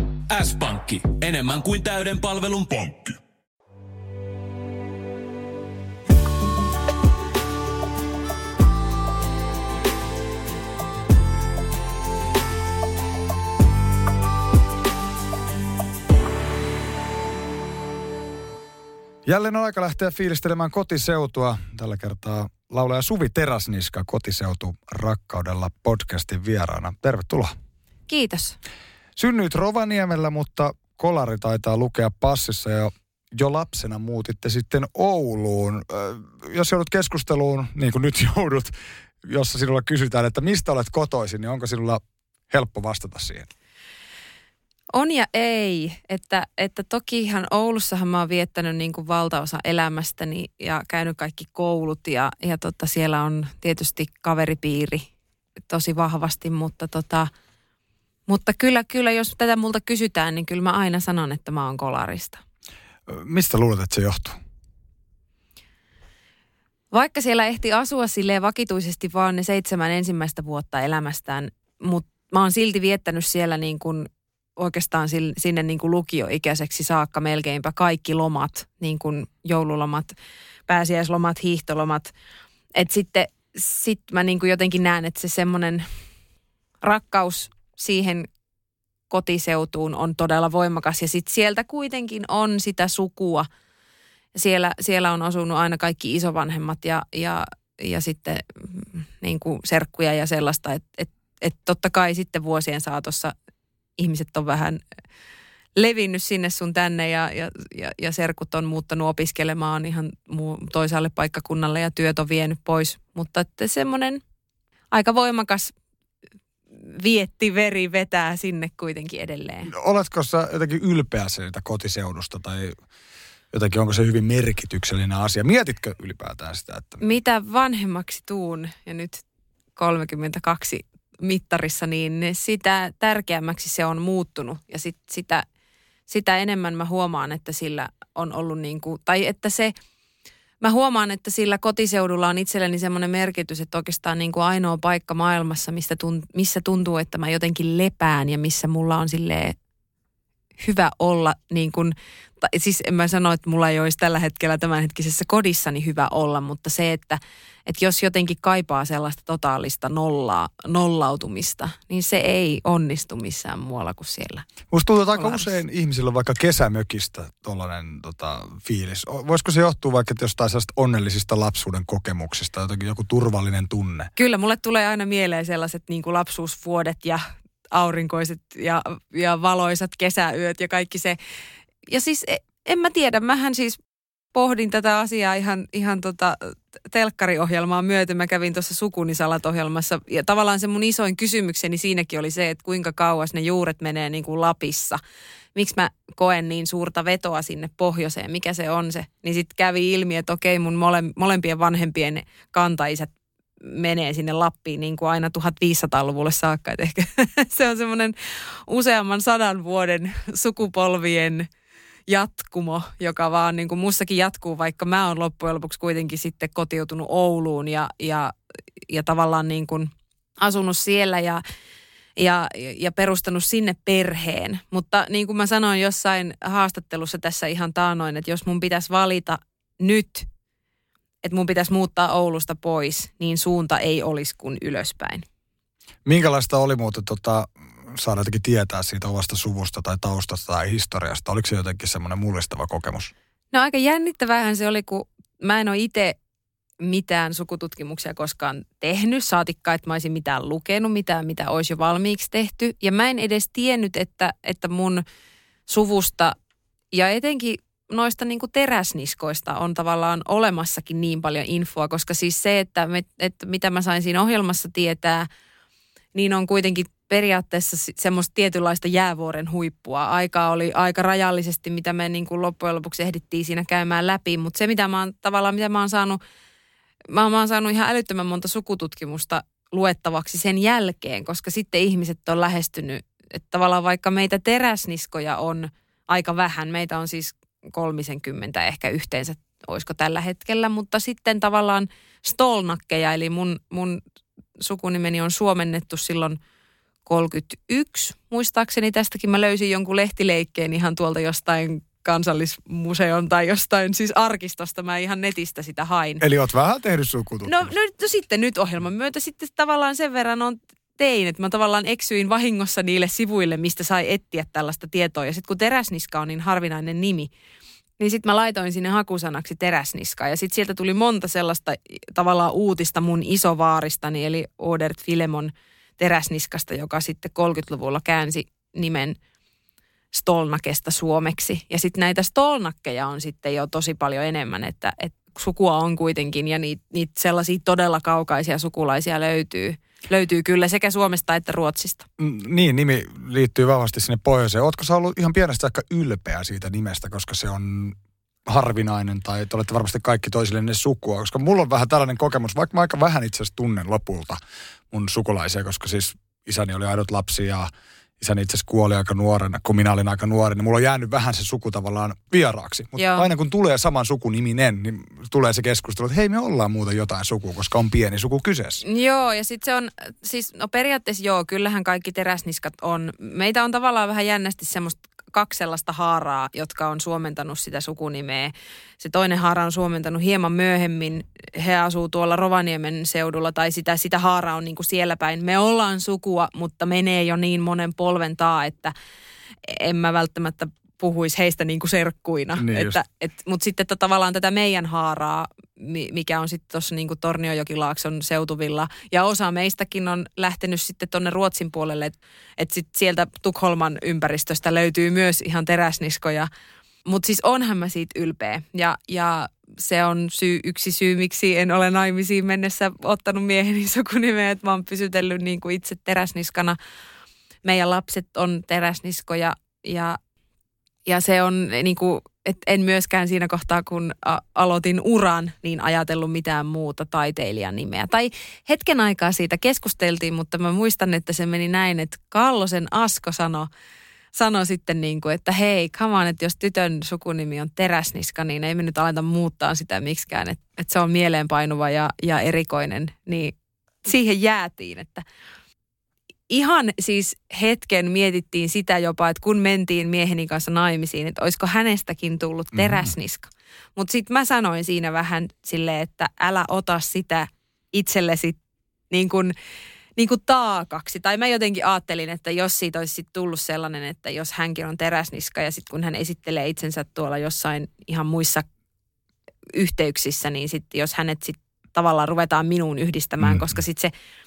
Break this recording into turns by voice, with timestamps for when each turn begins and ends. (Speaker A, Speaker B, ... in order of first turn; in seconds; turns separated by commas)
Speaker A: 0.3-3.2, Speaker B: 19.3-27.6, Speaker C: 28.1-28.6, Speaker B: 29.2-43.5, Speaker C: 44.9-55.1, Speaker C: 55.7-57.3, Speaker C: 58.3-62.4, Speaker B: 63.1-64.4, Speaker C: 66.9-80.1, Speaker C: 80.7-82.1, Speaker C: 82.8-85.9, Speaker C: 86.8-88.3, Speaker C: 89.1-93.5, Speaker C: 94.3-103.3, Speaker C: 104.0-104.8, Speaker C: 105.8-114.2, Speaker C: 114.9-115.7, Speaker C: 116.8-119.7, Speaker B: 119.7-122.8, Speaker B: 123.5-127.0, Speaker C: 127.0-129.2, Speaker C: 129.8-135.4, Speaker C: 136.1-139.7, Speaker C: 140.6-149.6, Speaker C: 150.6-164.4, Speaker B: 164.7-174.1, Speaker C: 165.1-165.5, Speaker C: 174.2-181.2, Speaker C: 181.9-183.8, Speaker C: 184.3-195.0, Speaker C: 195.6-203.1, Speaker C: 203.6-208.2, Speaker C: 208.7-211.5, Speaker C: 212.1-218.3, Speaker C: 218.9-221.4, Speaker C: 222.2-230.3, Speaker C: 231.2-235.2, Speaker B: 236.1-243.1, Speaker C: 243.5-246.2, Speaker C: 246.8-255.0, Speaker C: 255.7-256.4, Speaker C: 256.9-265.3, Speaker C: 266.1-276.2, Speaker C: 277.1-294.0, Speaker C: 294.6-296.4, Speaker C: 297.1-306.2, Speaker B: 306.2-307.7, Speaker C: 307.4-317.3, Speaker C: 318.0-329.2, Speaker C: 330.1-342.1, Speaker B: 342.2-348.0, Speaker B: 348.5-354.4, Speaker B: 354.9-368.8, Speaker C: 362.9-363.3, Speaker C: 368.8-388.9, Speaker C: 389.6-406.5, Speaker B: 392.6-393.0, Speaker C: 407.1-416.8, Speaker C: 417.6-420.2, Speaker C: 421.1-433.7, Speaker C: 434.3-445.2, Speaker C: 446.5-458.6, Speaker B: 452.7-453.1, Speaker C: 459.1-459.5, Speaker C: 460.2-468.7, Speaker C: 469.7-474.1